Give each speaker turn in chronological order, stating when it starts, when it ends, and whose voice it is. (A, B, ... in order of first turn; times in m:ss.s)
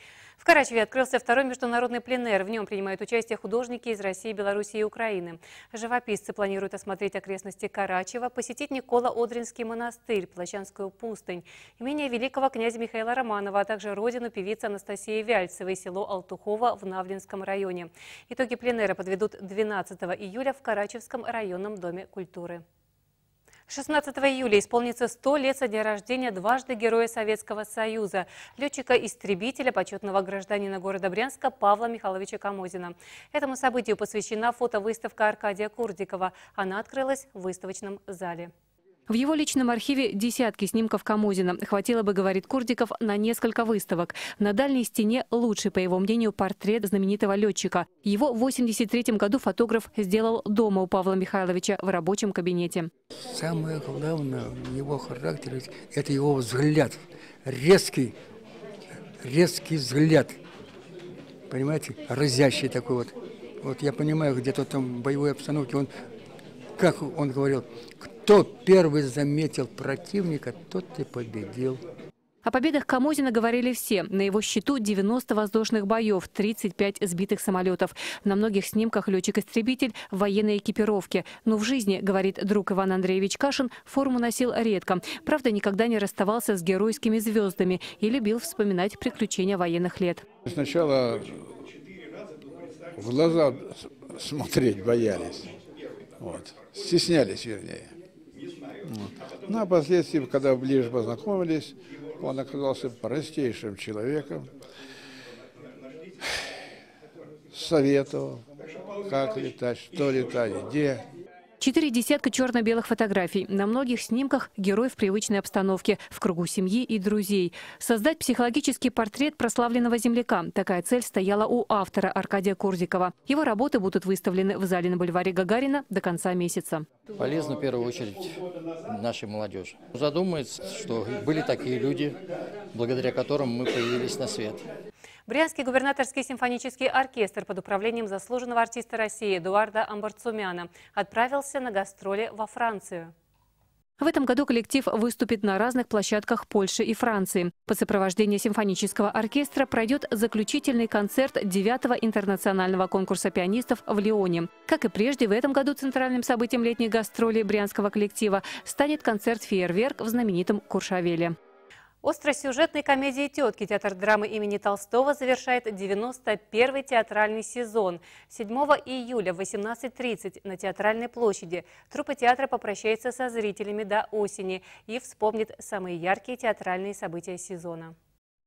0:00.4-0:22.6 A
0:23.7-0:38.5 A
0:39.1-0:52.9 A
0:53.3-0:58.1 B
0:59.2-1:00.4 B
1:01.5-1:05.9 B
1:06.8-1:11.8 B
1:12.4-1:30.2 A
1:30.5-1:31.4 C
1:33.0-1:35.5 C
1:36.2-1:37.9 C
1:38.9-1:44.5 C
1:47.5-1:48.4 C
1:49.1-1:51.0 C
1:51.6-2:06.9 A
2:07.1-2:12.2 D
2:12.7-2:14.6 D
2:15.3-2:23.1 A
2:24.0-2:41.4 A
2:42.0-2:57.9 A